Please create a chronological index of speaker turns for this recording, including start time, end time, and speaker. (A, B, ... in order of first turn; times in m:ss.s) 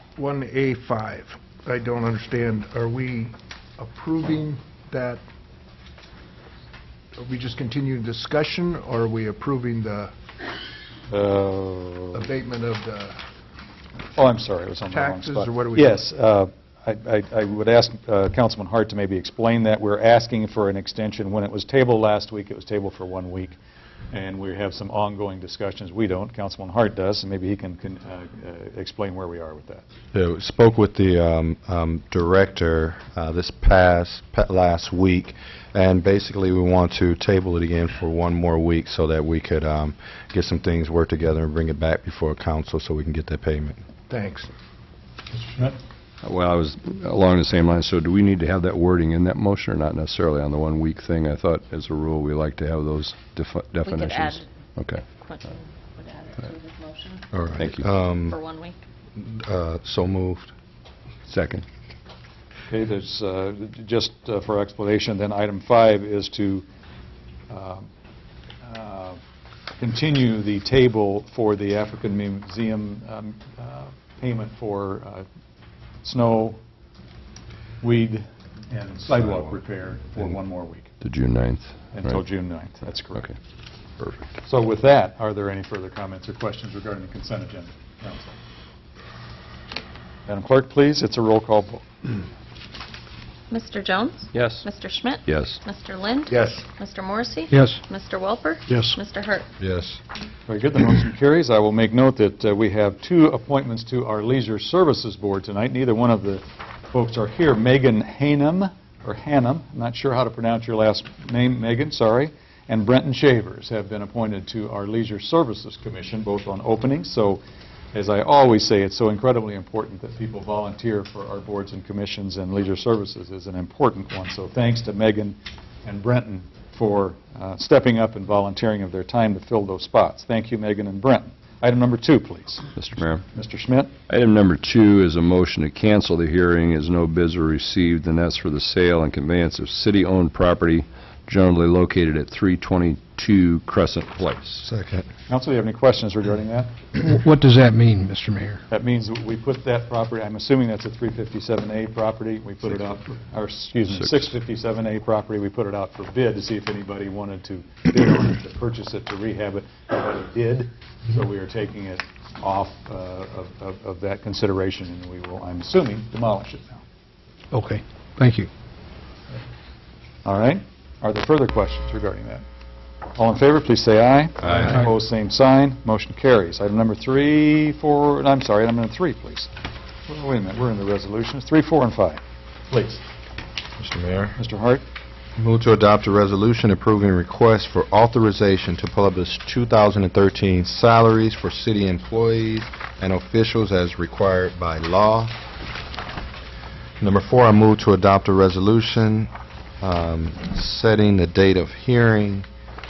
0:00.2-0:05.2 A
0:07.2-0:10.1 A
0:11.1-0:12.3 B
0:12.1-0:13.2 A
0:14.1-0:23.6 B
0:14.9-0:16.0 A
0:24.1-0:29.8 B
0:30.1-0:43.8 C
0:44.1-0:44.5 A
0:45.4-0:45.8 B
0:46.2-0:55.0 D
0:53.8-0:54.4 E
0:55.2-0:57.3 E
0:57.3-0:58.4 C
0:57.6-0:57.8 D
0:58.3-0:58.8 E
0:59.2-1:00.5 C
1:01.3-1:01.6 D
1:02.7-1:06.6 B
1:07.5-1:07.9 B
1:08.6-1:09.2 B
1:09.8-1:15.3 B
1:16.0-1:16.6 B
1:17.8-1:20.9 B
1:21.0-1:22.2 D
1:21.9-1:23.3 B
1:24.4-1:28.4 B
1:30.3-1:32.1 B
1:33.5-1:39.5 E
1:34.3-1:34.6 D
1:35.3-1:35.6 D
1:36.3-1:36.6 A
1:37.5-1:37.8 F
1:38.7-1:39.0 F
1:39.6-1:40.0 C
1:40.5-1:57.4 B
1:57.9-2:12.7 B
2:12.8-2:13.2 D
2:13.3-2:13.9 B
2:14.1-2:24.7 D
2:24.6-2:25.1 C
2:25.3-2:26.7 B
2:27.0-2:28.6 F
2:28.7-2:46.8 B
2:47.5-2:48.5 F
2:50.2-2:52.4 B
2:53.1-2:59.5 B
3:00.1-3:03.0 B
3:03.8-3:04.4 C
3:04.4-3:04.8 B
3:05.4-3:15.4 C
3:17.0-3:22.5 C